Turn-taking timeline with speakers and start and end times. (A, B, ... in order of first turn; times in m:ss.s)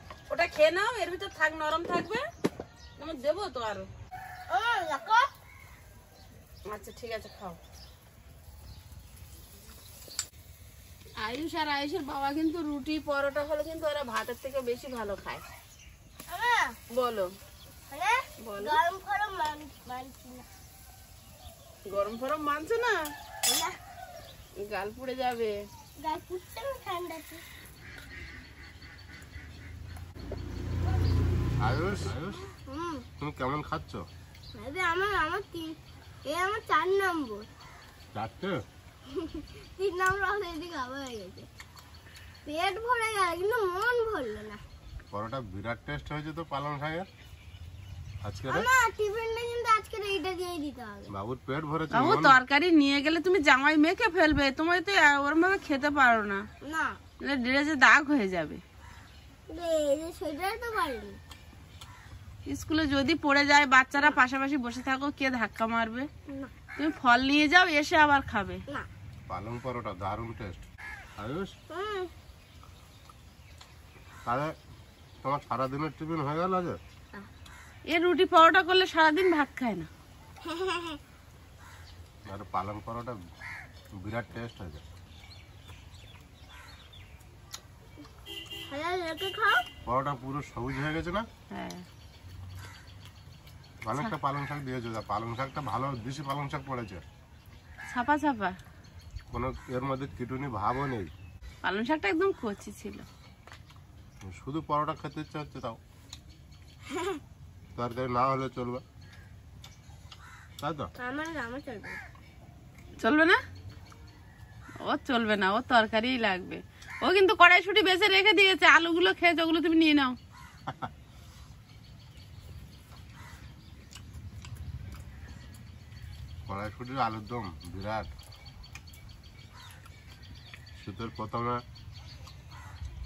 0:00.3-0:02.2 A
0:03.0-0:03.9 A
0:04.5-0:05.3 B
0:06.7-0:07.6 A
0:11.2-0:15.4 A
0:16.3-0:16.8 B
0:16.9-0:17.3 A
0:17.9-0:20.4 B
0:18.4-0:18.8 A
0:21.9-0:23.0 A
0:23.4-0:23.8 B
0:24.6-0:25.5 A
0:26.0-0:27.4 B
0:31.6-0:32.4 C
0:32.6-0:33.0 B
0:33.2-0:34.0 C
0:34.5-0:37.5 B
0:38.1-0:38.6 C
0:39.1-0:41.5 B
0:42.4-0:44.6 B
0:45.1-0:47.1 C
0:48.2-0:48.7 C
0:48.5-0:51.1 B
0:51.1-0:52.4 C
0:51.9-0:56.4 A
0:56.6-0:57.0 B
0:57.2-0:58.6 A
0:59.5-1:01.2 B
1:02.5-1:06.1 A
1:06.8-1:08.6 A
1:09.3-1:10.7 C
1:11.2-1:11.5 C
1:11.7-1:12.1 B
1:14.2-1:14.5 C
1:15.2-1:16.8 C
1:17.9-1:19.9 A
1:20.4-1:21.0 B
1:22.2-1:23.2 C
1:24.0-1:24.8 C
1:28.7-1:29.6 B
1:29.8-1:31.2 C
1:31.5-1:31.8 A
1:33.8-1:37.0 C
1:37.9-1:38.6 A
1:39.3-1:41.1 C
1:41.6-1:43.0 A
1:44.2-1:45.8 C
1:46.9-1:47.2 B
1:47.8-1:48.8 C
1:50.6-1:50.9 C
1:51.0-1:52.0 B
1:53.0-1:53.4 A
1:54.8-2:00.1 A
2:06.5-2:08.1 C
2:10.8-2:11.6 C